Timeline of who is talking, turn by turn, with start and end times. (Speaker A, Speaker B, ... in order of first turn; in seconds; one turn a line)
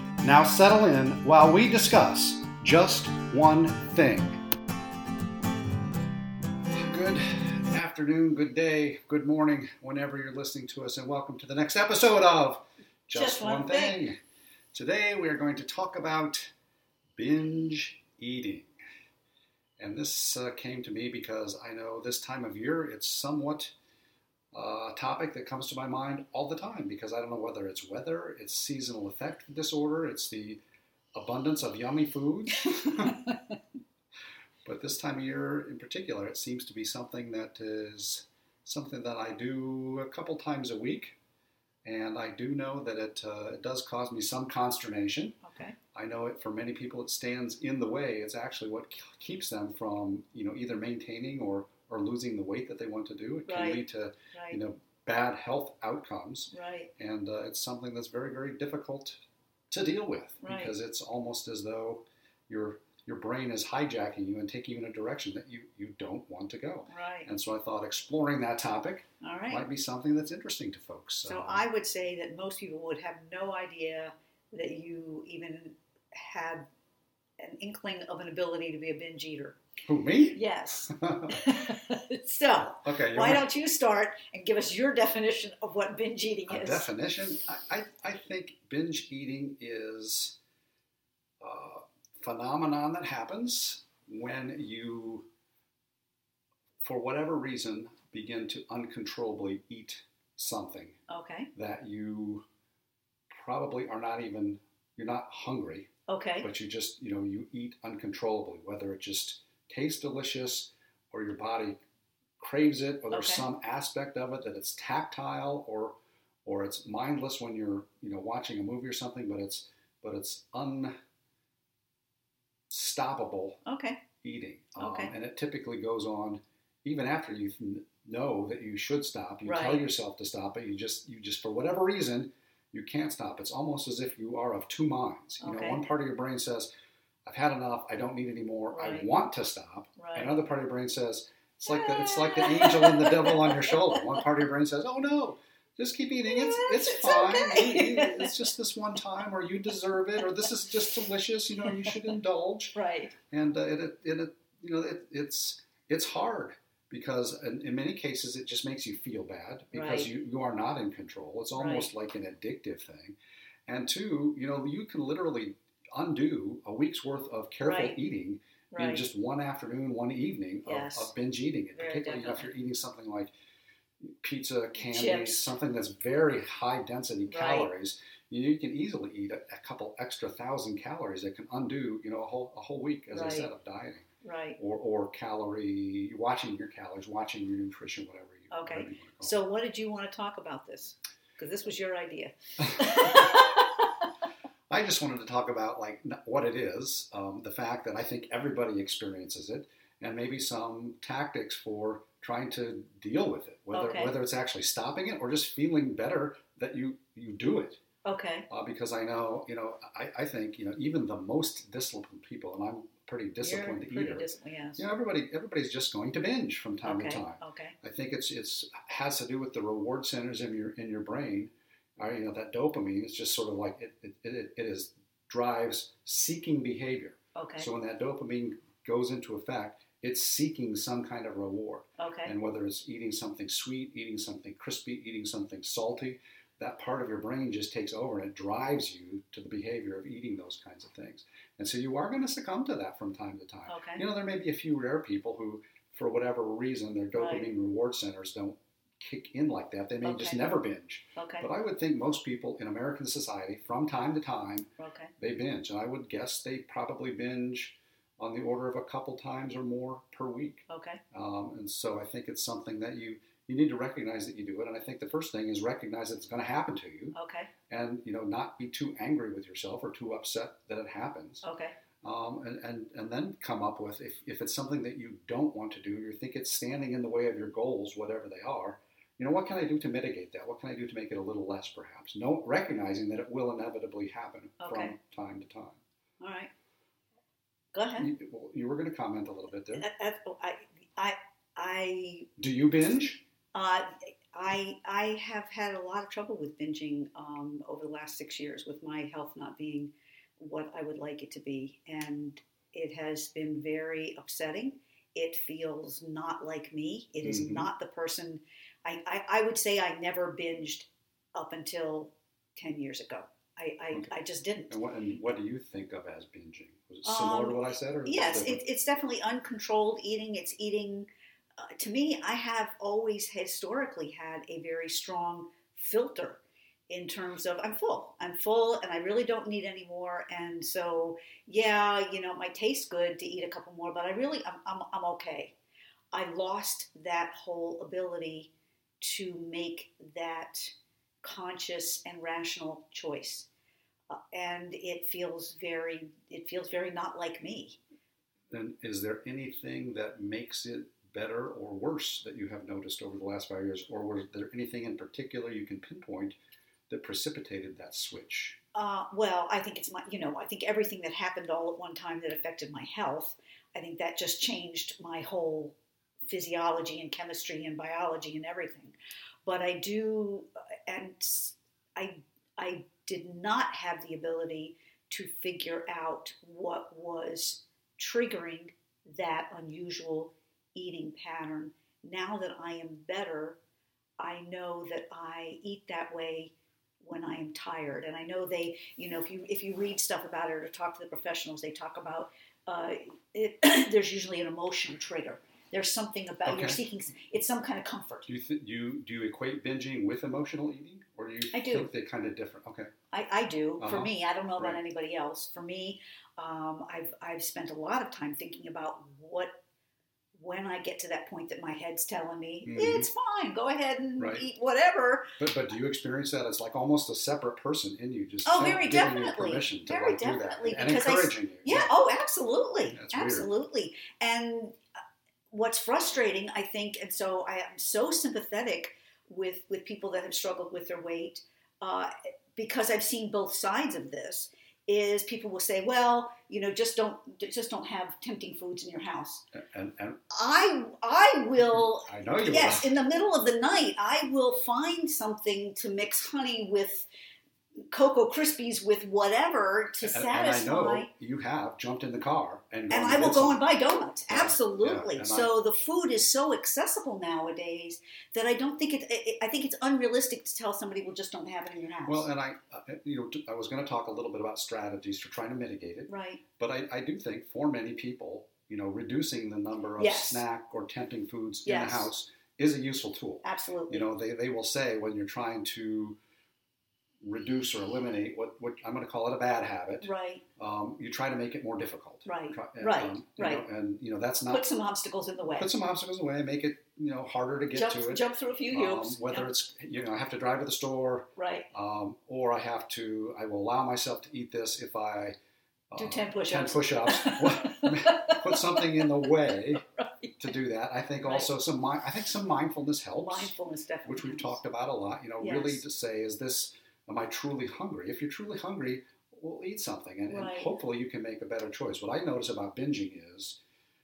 Speaker A: 0.2-4.4
Speaker A: 6.7-14.2
Speaker B: 13.1-14.1
Speaker A: 14.7-16.5
Speaker A: 17.2-18.7
Speaker A: 19.8-23.7
Speaker A: 24.5-30.6
Speaker A: 31.1-33.2
Speaker A: 34.6-41.1
Speaker A: 41.8-45.4
Speaker B: 45.4-45.8
Speaker A: 45.9-59.2
Speaker B: 53.5-54.6
Speaker B: 56.5-56.9
Speaker A: 59.7-71.6
Speaker B: 60.4-60.7
Speaker B: 66.9-67.3
Speaker B: 69.2-69.6
Speaker B: 71.2-76.7
Speaker B: 77.4-79.6
Speaker A: 79.8-81.4
Speaker B: 80.3-86.9
Speaker A: 82.8-83.5
Speaker A: 86.5-90.4
Speaker A: 91.4-95.2
Speaker A: 96.8-101.0
Speaker B: 101.1-101.5
Speaker A: 101.5-102.4
Speaker A: 103.3-105.9
Speaker B: 106.1-106.5
Speaker A: 106.4-111.8
Speaker A: 112.4-120.9
Speaker B: 113.1-113.5
Speaker A: 122.7-123.6
Speaker B: 123.7-124.0
Speaker A: 124.2-136.7
Speaker B: 124.8-125.1
Speaker B: 129.4-129.9
Speaker B: 135.4-135.9
Speaker A: 137.2-152.8
Speaker B: 138.7-139.1
Speaker B: 140.0-140.3
Speaker B: 141.7-144.3
Speaker B: 146.2-148.4
Speaker B: 152.7-153.1
Speaker A: 153.3-173.3
Speaker B: 159.7-160.1
Speaker B: 161.5-161.9
Speaker B: 167.6-168.0
Speaker B: 168.7-169.0
Speaker B: 170.6-171.1
Speaker B: 171.7-172.5
Speaker A: 174.0-189.4
Speaker B: 174.8-175.5
Speaker B: 177.3-177.7
Speaker B: 183.1-183.5
Speaker B: 184.2-184.6
Speaker B: 188.5-193.9
Speaker A: 192.8-193.2
Speaker A: 194.7-207.8
Speaker B: 203.7-204.1
Speaker B: 208.0-208.5
Speaker A: 208.5-267.1
Speaker B: 213.4-214.8
Speaker B: 216.8-217.7
Speaker B: 227.3-227.7
Speaker B: 232.0-232.3
Speaker B: 243.7-244.0
Speaker B: 247.1-247.5
Speaker B: 250.0-250.6
Speaker B: 251.2-251.5
Speaker B: 254.8-255.1
Speaker B: 260.7-261.0
Speaker B: 267.1-267.5
Speaker A: 267.7-271.4
Speaker B: 271.4-271.8
Speaker A: 272.0-285.8
Speaker B: 284.6-284.9
Speaker B: 286.2-286.5
Speaker B: 287.7-288.1
Speaker A: 288.0-289.9
Speaker B: 289.7-292.3
Speaker A: 292.4-293.2
Speaker B: 293.5-314.7
Speaker A: 307.2-307.7
Speaker A: 314.7-318.6
Speaker B: 317.0-321.1
Speaker B: 321.6-335.6
Speaker B: 336.1-343.5
Speaker B: 344.1-347.8
Speaker A: 348.5-356.4
Speaker A: 356.9-358.6
Speaker B: 358.7-365.7
Speaker B: 366.3-383.6
Speaker B: 384.2-398.3
Speaker A: 396.4-396.8
Speaker A: 398.3-402.9
Speaker B: 401.5-401.9
Speaker B: 403.1-409.6
Speaker A: 403.8-404.8
Speaker B: 410.3-415.4
Speaker A: 412.6-413.1
Speaker A: 414.2-414.5
Speaker A: 415.4-421.9
Speaker B: 418.4-424.8
Speaker A: 422.9-423.5
Speaker B: 425.5-439.4
Speaker A: 439.5-440.2
Speaker B: 440.3-447.1
Speaker A: 441.7-442.9
Speaker B: 447.9-451.1
Speaker A: 450.0-453.6
Speaker B: 452.9-462.3
Speaker A: 454.3-455.5
Speaker A: 462.1-476.2
Speaker B: 466.1-466.4
Speaker B: 470.0-470.4
Speaker B: 471.6-472.1
Speaker B: 473.4-474.1
Speaker A: 477.2-484.6
Speaker B: 480.0-480.4
Speaker B: 482.2-483.6
Speaker B: 484.5-485.7
Speaker A: 485.5-495.3
Speaker B: 487.7-489.5
Speaker B: 491.4-491.7
Speaker A: 495.9-499.8
Speaker B: 495.9-500.4
Speaker A: 500.4-503.5
Speaker B: 501.2-501.5
Speaker B: 503.2-504.6
Speaker A: 504.1-513.6
Speaker B: 505.4-505.8
Speaker B: 510.3-510.7